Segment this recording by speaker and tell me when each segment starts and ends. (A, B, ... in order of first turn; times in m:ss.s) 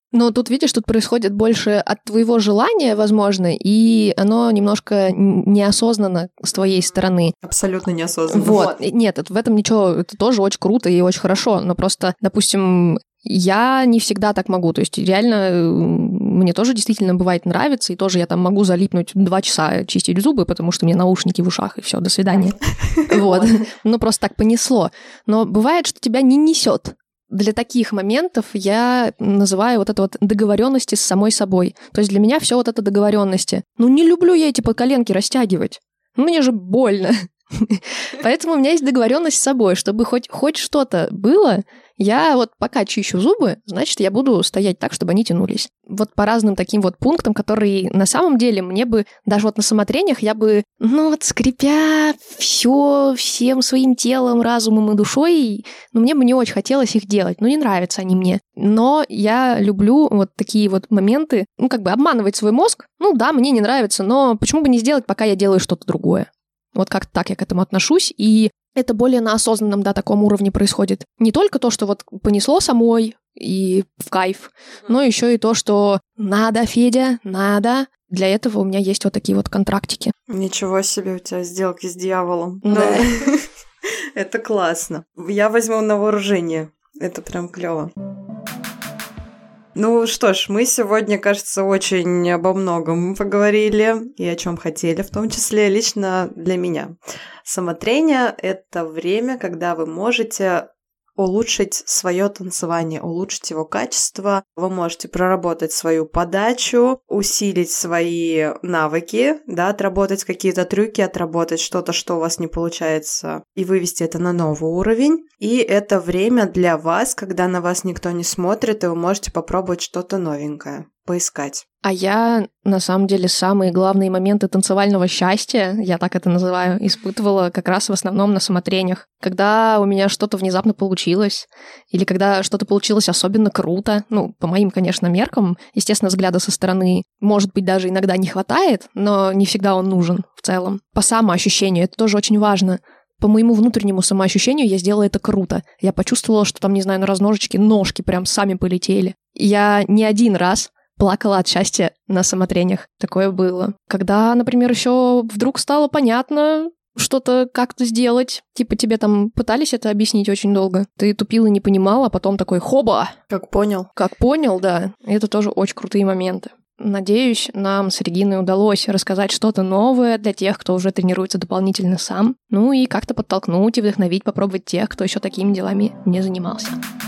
0:00.1-0:07.3 A
0:07.4-0:08.7 B
0:08.3-1:20.1 A
0:23.0-0:23.5 B
1:20.3-1:23.4 B
1:22.6-1:23.1 A
1:24.2-1:27.9 B
1:29.8-2:01.6 B
2:01.8-2:43.2 A
2:43.3-2:43.9 B
2:44.0-2:56.8 A